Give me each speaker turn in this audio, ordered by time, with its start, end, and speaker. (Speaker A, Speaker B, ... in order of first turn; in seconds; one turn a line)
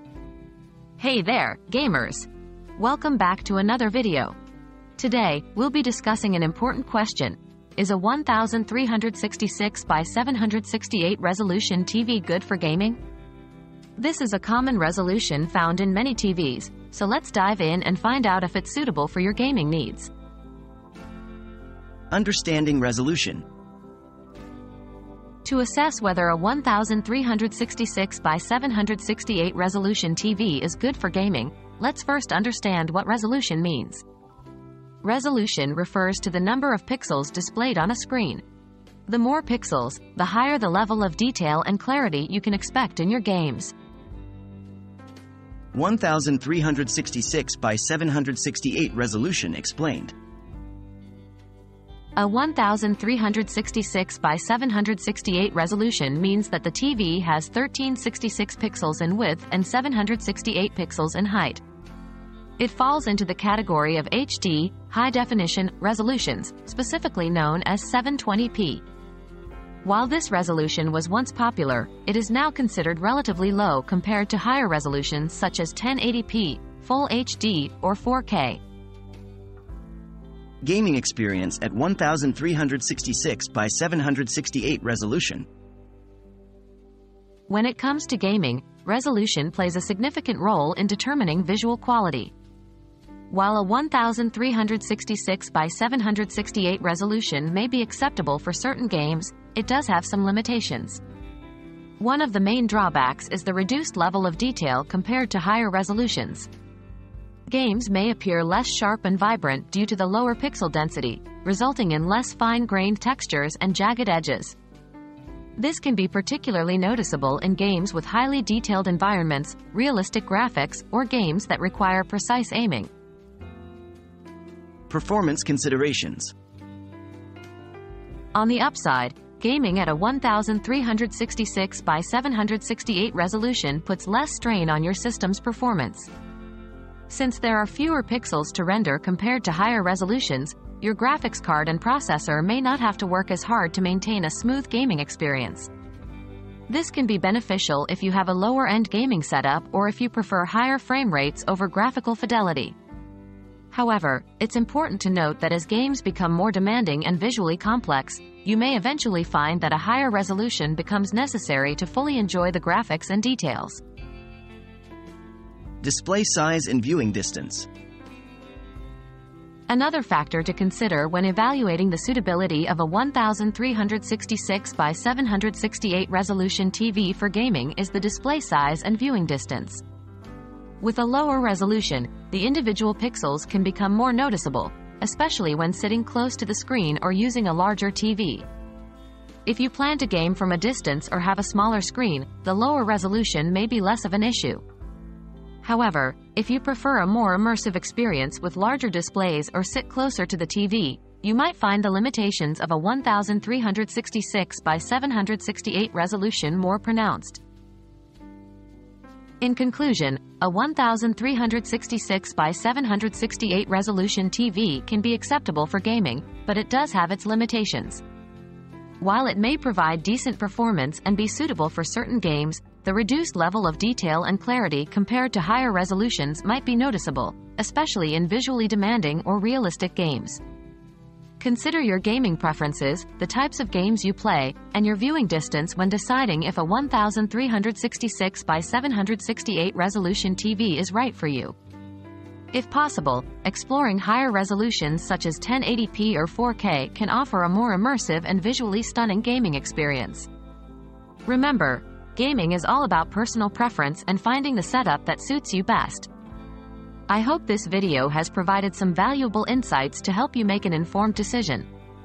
Speaker A: 1.0-4.3
Speaker A: 5.0-13.0
Speaker A: 14.0-20.1
Speaker B: 22.1-23.4
Speaker A: 25.4-34.0
Speaker A: 35.0-38.4
Speaker A: 39.1-43.7
Speaker B: 45.7-50.1
Speaker A: 52.1-61.6
Speaker A: 62.6-68.8
Speaker A: 69.8-78.6
Speaker B: 80.6-85.5
Speaker A: 87.5-92.3
Speaker A: 93.3-101.0
Speaker A: 102.0-106.5
Speaker A: 107.5-114.5
Speaker A: 115.5-122.9
Speaker B: 124.9-126.3
Speaker A: 128.3-136.1
Speaker A: 137.1-145.7
Speaker A: 146.7-152.8
Speaker A: 153.7-163.8
Speaker B: 165.8-167.7
Speaker A: 169.7-179.8
Speaker A: 180.8-188.4
Speaker A: 189.4-194.6
Speaker A: 195.6-207.4
Speaker A: 209.4-218.0
Speaker A: 219.0-230.4
Speaker A: 231.4-241.5
Speaker A: 242.5-250.3
Speaker A: 251.2-256.1
Speaker A: 257.1-261.7